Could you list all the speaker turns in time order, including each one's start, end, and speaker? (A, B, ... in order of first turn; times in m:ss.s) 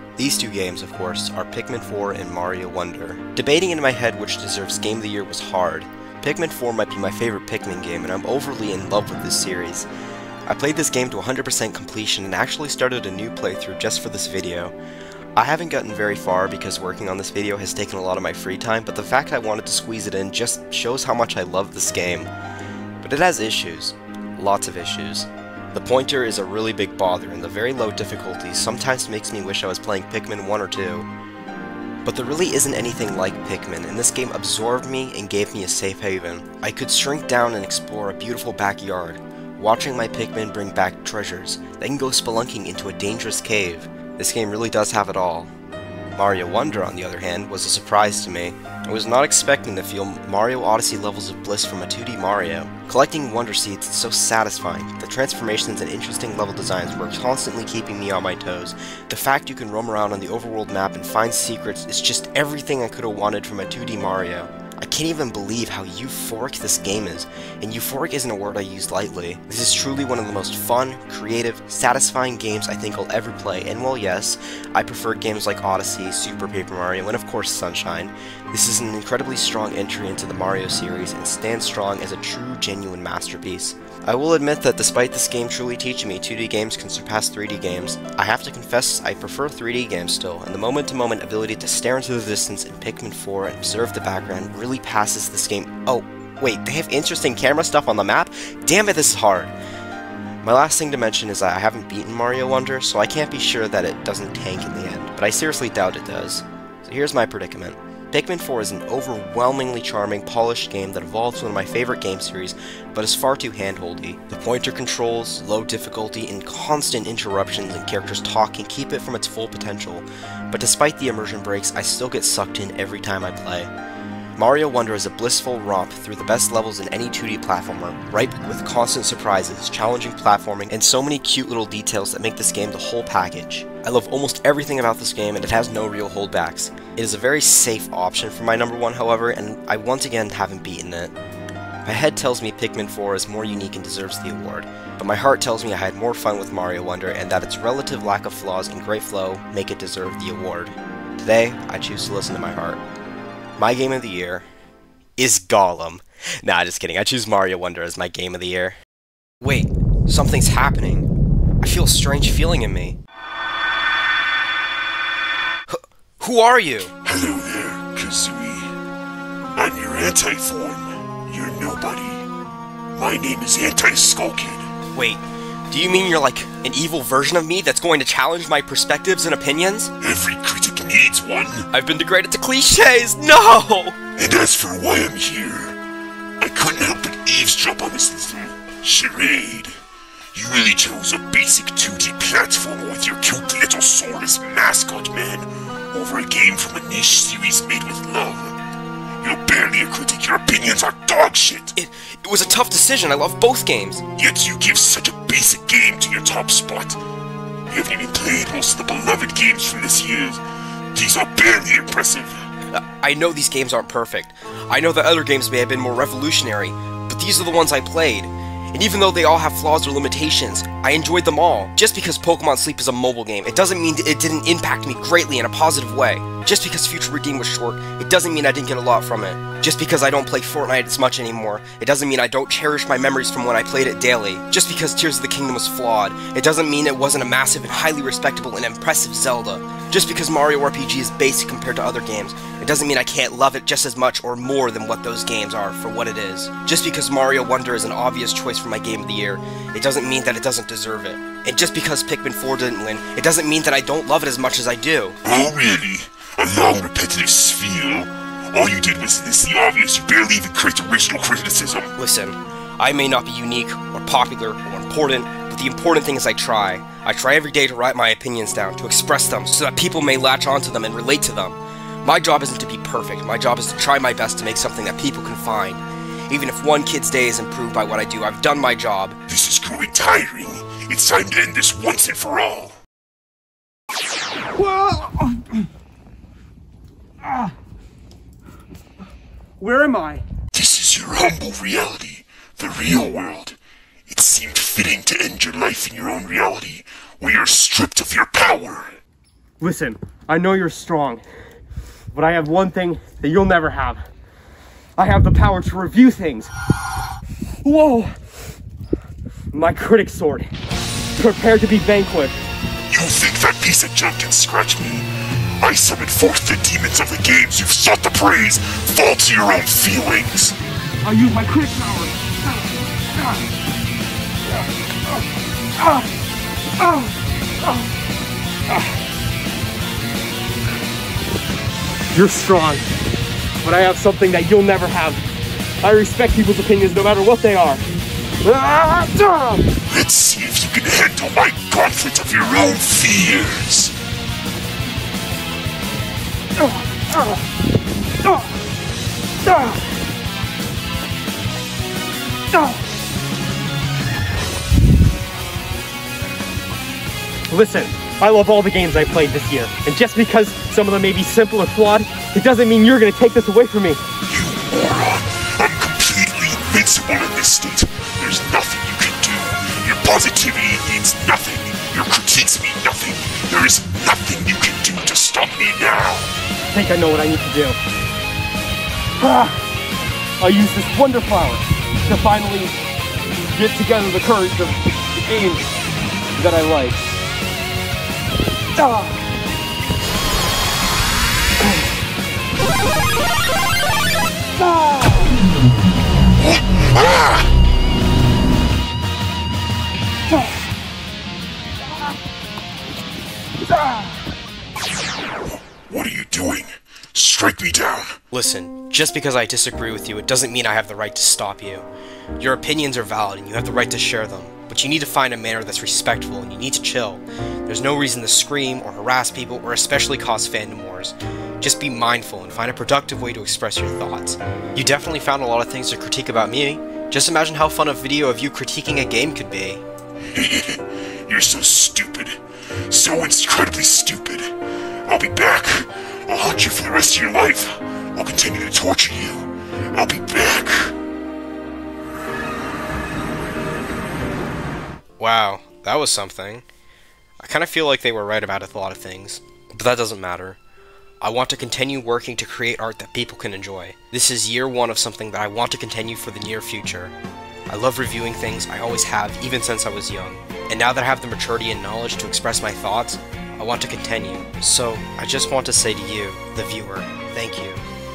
0:00.2-0:09.9 A
0:10.5-0:14.8 A
0:15.4-0:22.3 A
0:23.0-0:31.1 A
0:32.0-0:45.5 A
0:46.2-1:39.5 A
1:40.4-2:03.7 A
2:04.4-2:21.1 A
2:21.8-2:32.8 A
2:33.6-2:34.5 A
2:35.2-2:38.8 A
2:39.4-2:41.1 A
2:41.6-2:43.0 A
2:45.7-2:46.9 A
2:47.0-2:48.8 B
2:49.6-2:52.3 B
2:53.0-2:54.7 B
2:54.9-2:59.9 A
3:00.0-3:01.7 B
3:01.7-3:04.0 A
3:04.2-3:05.8 B
3:06.4-3:09.8 B
3:10.3-3:18.6 B
3:19.2-3:21.7 B
3:21.7-3:24.0 A
3:24.2-3:27.0 B
3:27.7-3:32.5 B
3:32.7-4:15.2 A
4:15.2-4:21.9 B
4:22.0-4:39.2 A
4:39.3-4:42.8 B
4:44.5-4:45.7 C
4:47.2-4:47.6 C
4:49.6-4:50.2 C
4:50.5-4:59.0 B
4:59.6-5:01.2 C
5:02.1-5:04.1 C
5:05.0-5:06.5 C
5:07.6-5:08.2 C
5:09.5-5:10.5 C
5:11.2-5:12.4 C
5:12.9-5:20.6 B
5:21.0-5:23.5 C
5:25.8-5:26.1 C
5:26.8-5:27.9 C
5:28.7-5:29.0 C
5:32.1-5:32.9 C
5:33.6-5:35.2 C
5:35.8-5:37.8 C
5:38.4-5:39.7 C
5:39.8-5:44.0 B
5:46.6-5:47.4 C
5:49.4-5:49.9 C
5:52.5-5:52.8 C
5:57.5-6:04.0 C
6:04.2-6:16.3 B
6:16.7-6:17.8 C
6:19.2-6:19.6 C
6:20.4-6:22.7 C
6:23.6-6:25.7 C
6:26.4-6:27.0 C
6:28.8-6:29.3 C
6:34.6-6:35.4 C
6:36.4-6:37.6 B
6:43.7-6:44.1 C
6:45.7-6:48.2 B
6:48.3-6:51.9 A
6:52.4-7:09.8 A
7:10.3-7:21.0 B
7:25.2-7:26.6 A
7:27.4-7:30.6 A
7:31.2-7:37.2 A
7:37.7-7:47.9 A